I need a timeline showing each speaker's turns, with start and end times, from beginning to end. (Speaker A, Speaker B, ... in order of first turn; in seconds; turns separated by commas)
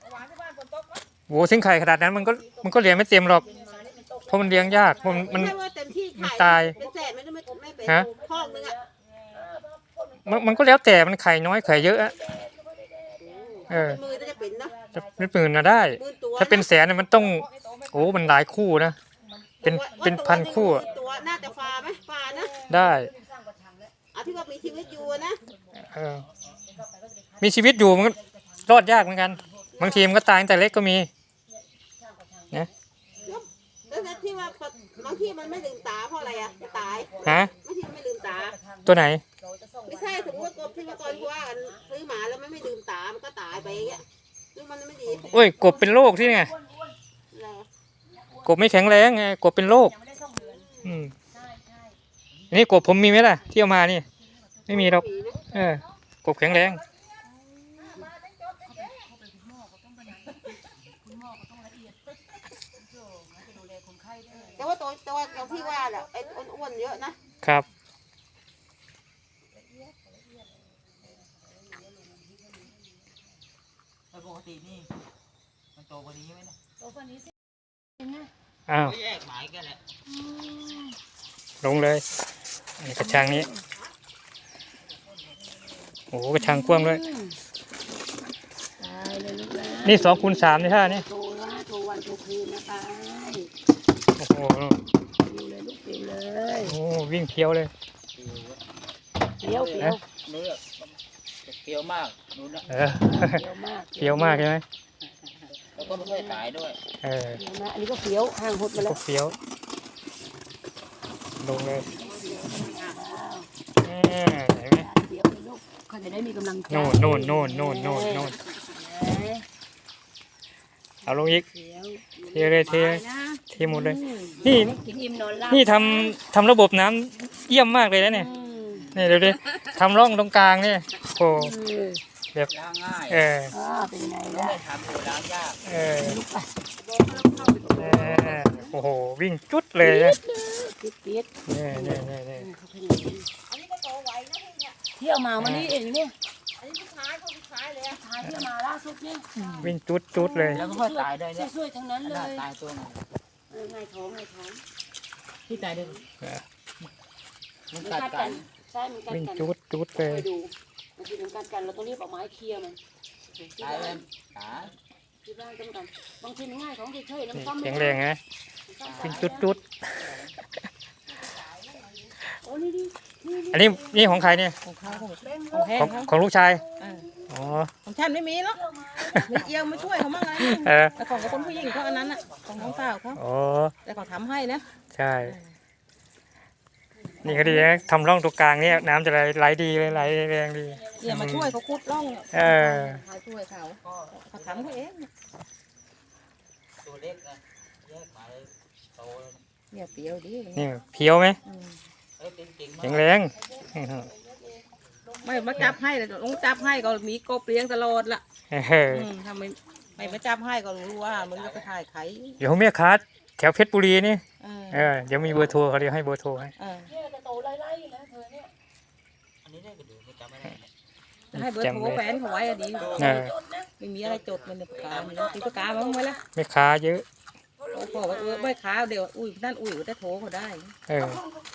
Speaker A: 0.1-1.0, Speaker B: 1.3-3.5, Speaker C: 3.4-5.5, Speaker B: 4.3-5.6, Speaker D: 4.8-8.8, Speaker B: 6.2-6.8, Speaker C: 7.8-8.8, Speaker A: 9.0-9.4, Speaker C: 9.4-10.6, Speaker B: 10.2-12.2, Speaker C: 12.1-14.2, Speaker D: 13.2-14.8, Speaker B: 13.7-14.0, Speaker C: 14.9-15.2, Speaker B: 14.9-19.0, Speaker D: 15.9-16.7, Speaker D: 19.6-22.8, Speaker B: 19.6-20.9, Speaker C: 19.7-21.1, Speaker C: 22.4-23.9, Speaker B: 22.7-23.1, Speaker D: 24.1-25.4, Speaker B: 25.8-26.3, Speaker C: 27.0-27.3, Speaker B: 27.4-31.1, Speaker D: 29.7-30.2, Speaker C: 32.0-32.5, Speaker D: 33.3-38.6, Speaker B: 37.2-37.5, Speaker B: 38.9-39.2, Speaker D: 39.9-45.4, Speaker B: 45.3-46.5, Speaker C: 45.9-46.9, Speaker D: 47.3-47.7, Speaker B: 48.5-50.0, Speaker C: 50.1-50.5, Speaker D: 50.4-51.0, Speaker B: 50.8-51.1, Speaker C: 51.3-51.9, Speaker B: 52.5-54.1, Speaker B: 54.7-56.8, Speaker D: 54.7-55.5, Speaker A: 57.5-58.0, Speaker C: 59.4-60.3, Speaker C: 61.1-61.9, Speaker C: 63.5-64.6, Speaker D: 64.6-67.2, Speaker E: 74.1-74.9, Speaker E: 75.8-76.5, Speaker B: 78.7-79.0, Speaker E: 79.0-79.8, Speaker C: 80.2-80.9, Speaker B: 81.6-82.1, Speaker B: 82.8-83.5, Speaker C: 83.1-83.6, Speaker B: 86.1-87.0, Speaker C: 86.4-87.4, Speaker C: 88.8-93.5, Speaker B: 89.8-91.1, Speaker B: 94.2-94.8, Speaker C: 95.2-96.8, Speaker B: 96.6-97.7, Speaker E: 98.2-98.6, Speaker C: 99.4-100.0, Speaker E: 99.5-102.7, Speaker B: 102.7-103.5, Speaker C: 103.0-104.5, Speaker B: 104.0-104.7, Speaker E: 105.7-106.8, Speaker C: 106.0-106.2, Speaker B: 107.0-107.4, Speaker C: 107.4-109.0, Speaker B: 108.8-109.4, Speaker B: 111.4-111.9, Speaker C: 111.9-113.5, Speaker B: 113.8-114.9, Speaker C: 114.8-119.5, Speaker B: 116.7-118.4, Speaker B: 121.1-121.5, Speaker C: 121.2-122.1, Speaker B: 122.2-124.8, Speaker A: 122.6-123.4, Speaker C: 123.6-126.2, Speaker B: 125.5-128.3, Speaker C: 128.2-128.9, Speaker B: 128.9-131.6, Speaker C: 131.4-132.0, Speaker E: 132.5-133.2, Speaker B: 133.1-133.5, Speaker C: 133.5-134.6, Speaker E: 134.3-135.6, Speaker B: 135.7-136.2, Speaker C: 135.9-136.5, Speaker A: 136.9-138.2, Speaker C: 137.6-138.5, Speaker B: 137.8-140.2, Speaker C: 139.8-143.3, Speaker B: 141.5-142.5, Speaker A: 143.5-144.8, Speaker C: 145.0-146.1, Speaker B: 145.4-145.7, Speaker A: 146.6-147.9, Speaker C: 148.0-149.4, Speaker A: 149.4-149.7, Speaker B: 149.6-150.7, Speaker C: 150.2-152.5, Speaker E: 150.5-151.5, Speaker E: 152.0-153.0, Speaker C: 153.5-154.6, Speaker E: 155.5-156.0, Speaker E: 157.7-158.5, Speaker C: 157.8-159.4, Speaker B: 159.1-160.3, Speaker C: 160.1-162.8, Speaker E: 163.6-164.7, Speaker C: 165.2-168.0, Speaker B: 167.3-168.2, Speaker C: 168.7-169.6, Speaker E: 168.9-169.4, Speaker B: 168.9-169.8, Speaker C: 172.4-174.3, Speaker B: 173.5-174.6, Speaker A: 174.6-176.1, Speaker C: 175.5-176.0, Speaker B: 175.8-176.6, Speaker A: 176.8-177.1, Speaker B: 177.3-177.7, Speaker A: 177.8-178.6, Speaker C: 178.6-179.4, Speaker A: 179.2-183.2, Speaker E: 179.7-180.2, Speaker B: 180.4-181.1, Speaker E: 181.1-181.9, Speaker C: 181.2-181.5, Speaker B: 183.2-183.8, Speaker A: 183.8-184.7, Speaker B: 184.9-185.4, Speaker C: 187.0-187.8, Speaker B: 187.2-191.6, Speaker A: 191.0-192.3, Speaker B: 192.3-193.0, Speaker C: 192.3-192.6, Speaker A: 192.9-195.1, Speaker E: 193.9-194.8, Speaker E: 196.8-199.4, Speaker A: 199.7-200.7, Speaker B: 200.6-201.4, Speaker A: 201.4-201.8, Speaker E: 202.2-203.1, Speaker B: 202.8-204.1, Speaker C: 204.0-204.6, Speaker A: 205.2-208.2, Speaker B: 208.5-209.1, Speaker A: 208.9-212.4, Speaker E: 211.0-211.7, Speaker B: 212.4-216.5, Speaker A: 214.4-214.9, Speaker A: 216.6-217.0, Speaker C: 216.9-218.5, Speaker E: 219.4-220.7, Speaker B: 221.3-222.1, Speaker A: 221.3-223.0, Speaker C: 222.3-223.3, Speaker E: 222.8-223.2, Speaker B: 223.0-223.3, Speaker A: 223.8-226.2, Speaker E: 224.0-225.3, Speaker C: 225.1-226.1, Speaker B: 226.3-227.1, Speaker C: 227.7-228.5, Speaker A: 227.7-230.8, Speaker B: 230.9-231.2